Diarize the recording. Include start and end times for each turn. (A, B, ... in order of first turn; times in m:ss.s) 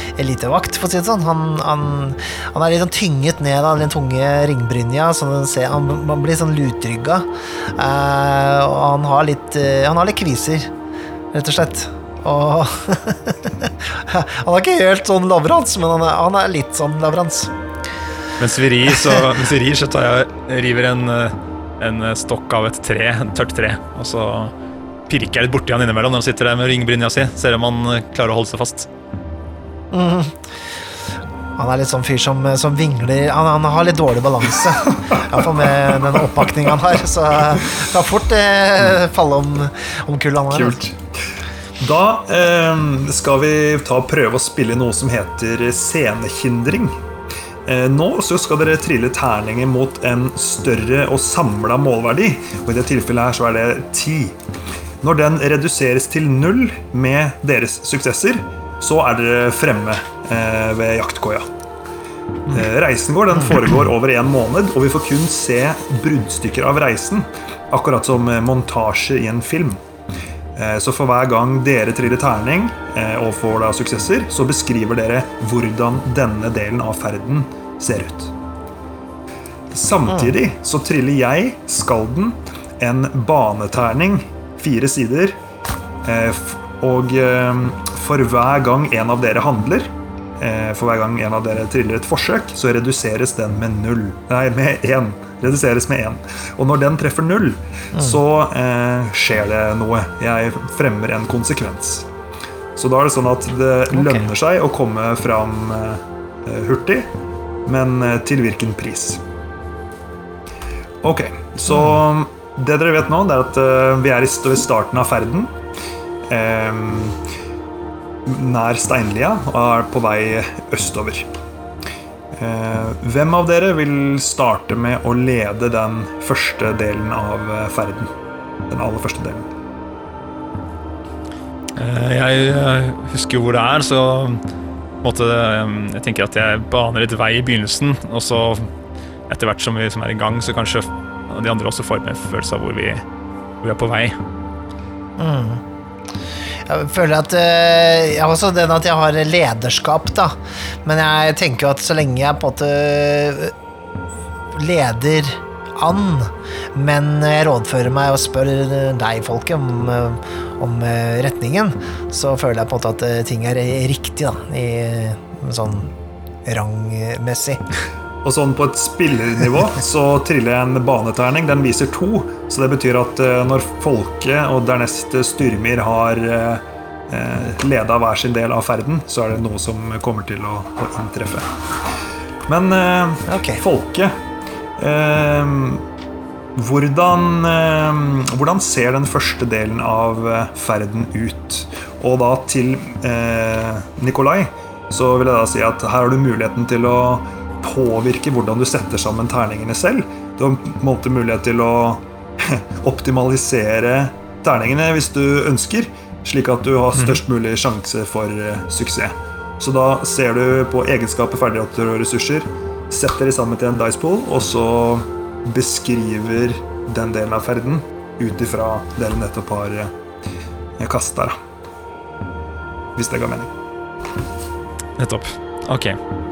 0:00.2-0:10.7 A
0:11.3-0:17.5 A
0:18.4-0:24.5 B
0:25.1-0:28.9 B
0:29.9-0:30.4 A
0:31.6-0:40.8 A
0:40.5-0:41.0 C
0:41.8-0:47.0 C
0:47.6-0:54.4 C
0:55.0-1:01.4 C
1:02.5-1:09.8 C
1:10.6-1:18.3 C
1:19.7-1:25.3 C
1:26.0-1:42.1 C
1:37.9-1:38.2 A
1:42.8-1:47.1 C
1:43.9-1:44.2 A
1:47.6-1:49.2 C
1:51.0-1:55.5 C
1:56.3-1:57.2 C
1:58.2-2:01.3 C
2:02.3-2:08.1 C
2:08.7-2:09.5 C
2:11.8-2:14.4 B
2:15.0-2:18.7 B
2:19.3-2:23.0 B
2:23.6-2:24.2 B
2:25.2-2:25.6 A
2:26.7-2:33.5 A
2:34.5-2:45.9 A
2:46.4-2:47.6 A
2:48.2-3:01.9 C
3:02.4-3:04.1 C
3:03.3-3:03.6 A
3:04.8-3:05.8 C
3:06.6-3:39.9 C
3:40.8-3:41.4 C
3:43.0-3:43.5 C
3:45.0-3:46.0 B